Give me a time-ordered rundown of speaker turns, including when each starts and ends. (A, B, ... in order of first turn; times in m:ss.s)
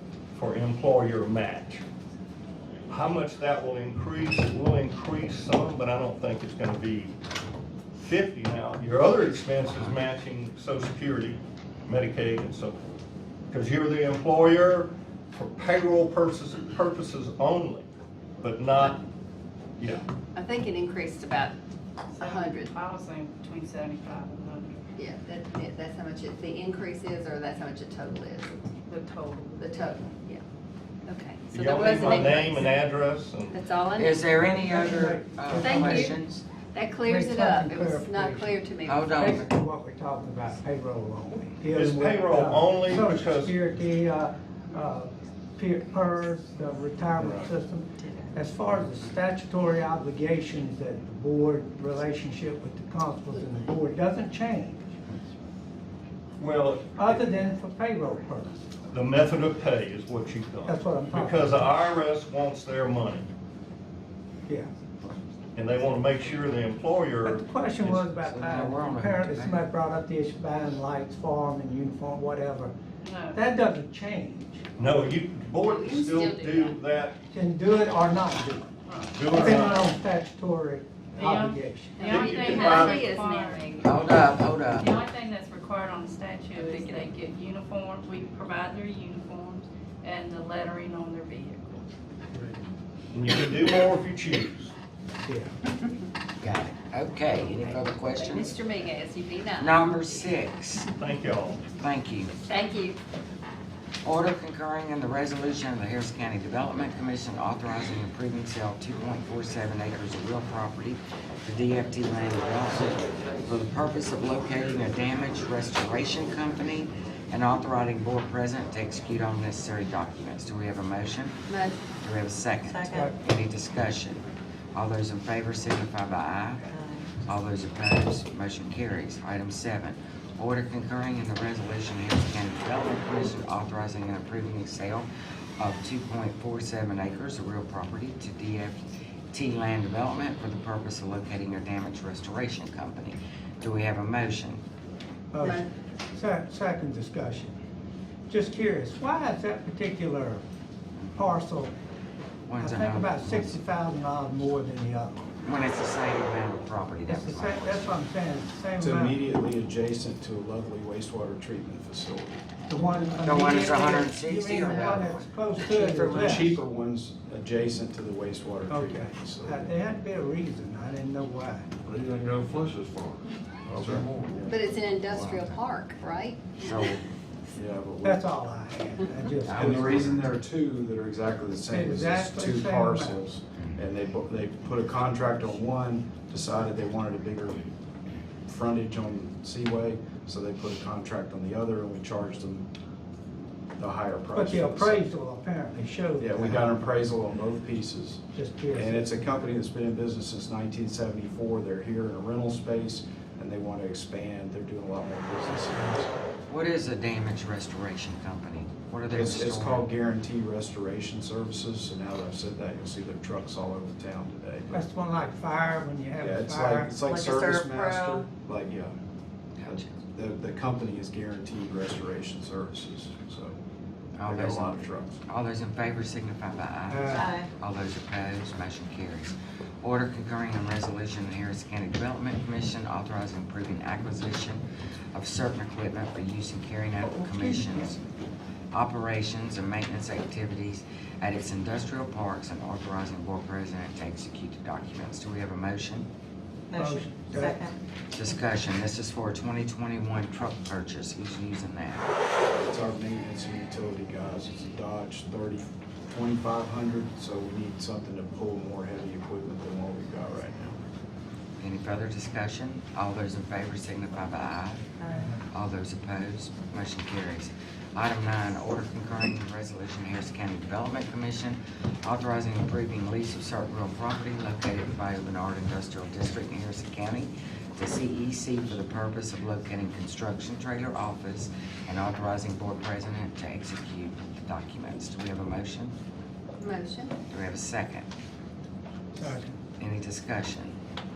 0:00.3-0:01.8 A
0:02.9-0:07.1 A
0:08.0-0:12.8 A
0:13.5-0:17.9 A
0:18.4-0:19.0 A
0:19.8-0:20.0 A
0:20.3-0:21.5 B
0:22.2-0:22.7 B
0:22.2-0:24.8 C
0:25.0-0:28.6 B
0:28.8-0:29.6 C
0:29.6-0:30.4 B
0:31.0-0:32.8 B
0:31.5-0:33.6 A
0:33.5-0:34.4 B
0:33.9-0:36.4 D
0:34.4-0:36.2 E
0:35.6-0:36.1 B
0:36.7-0:39.4 B
0:37.0-0:38.6 E
0:38.8-0:39.5 D
0:39.1-0:54.8 E
0:41.7-0:43.6 A
0:47.2-0:47.4 F
0:48.0-0:48.4 C
0:56.4-0:57.3 A
0:57.0-0:58.5 E
0:58.9-1:03.3 A
1:00.6-1:01.6 E
1:05.5-1:08.1 A
1:07.2-1:12.7 E
1:08.1-1:09.6 D
1:13.0-1:13.4 C
1:13.3-1:14.6 E
1:14.8-1:17.2 A
1:15.6-1:16.8 B
1:17.3-1:18.7 E
1:18.8-1:19.2 C
1:19.1-1:19.9 A
1:19.2-1:22.1 E
1:21.1-1:23.9 C
1:22.0-1:24.2 B
1:22.0-1:23.1 A
1:23.8-1:25.0 D
1:24.8-1:31.8 C
1:26.5-1:27.1 B
1:33.1-1:34.7 A
1:35.2-1:35.5 E
1:36.4-1:38.6 D
1:37.5-1:40.4 B
1:39.6-1:40.9 D
1:41.0-1:41.6 A
1:41.8-1:42.3 D
1:42.3-1:43.0 B
1:44.0-2:01.4 D
2:01.5-2:01.9 B
2:01.9-2:06.7 D
2:02.7-2:03.1 C
2:02.8-2:03.1 E
2:06.7-2:07.1 C
2:07.2-2:15.1 D
2:15.6-2:18.8 D
2:19.3-2:24.6 D
2:25.3-2:27.5 E
2:25.4-2:25.7 B
2:28.3-2:30.4 E
2:31.2-2:31.7 E
2:32.5-2:33.5 D
2:32.6-2:35.3 E
2:35.4-2:37.9 D
2:37.0-2:39.2 E
2:38.8-2:42.4 F
2:42.7-2:46.6 E
2:43.2-2:46.6 D
2:46.1-2:49.7 F
2:48.7-2:51.6 E
2:51.8-2:54.5 G
2:53.7-2:54.6 F
2:54.5-2:56.5 B
2:55.2-2:55.5 D
2:56.6-2:57.0 D
2:57.5-2:58.2 F
2:58.0-3:00.1 E
2:59.4-3:00.3 D
2:59.5-3:07.7 F
3:01.7-3:03.2 E
3:03.6-3:03.8 D
3:08.5-3:12.7 F
3:13.8-3:15.0 F
3:14.3-3:16.7 E
3:16.2-3:18.2 F
3:18.3-3:19.2 E
3:18.7-3:26.2 F
3:25.6-3:25.9 E
3:26.5-3:29.8 D
3:29.1-3:34.8 F
3:34.7-3:36.9 E
3:36.2-3:39.0 F
3:37.0-3:38.3 C
3:39.6-3:39.9 D
3:39.6-3:43.6 F
3:44.2-3:54.6 D
3:44.2-3:45.2 F
3:46.9-3:47.4 E
3:47.1-3:47.5 C
3:55.1-3:58.0 D
3:58.7-4:06.1 D
4:06.7-4:07.7 C
4:06.7-4:07.7 E
4:08.1-4:12.1 D
4:12.5-4:20.8 F
4:21.6-4:24.9 D
4:25.0-4:25.3 C
4:25.5-4:45.9 D
4:46.6-4:47.1 B
4:47.3-4:48.1 D
4:49.1-4:49.6 E
4:49.8-4:50.8 D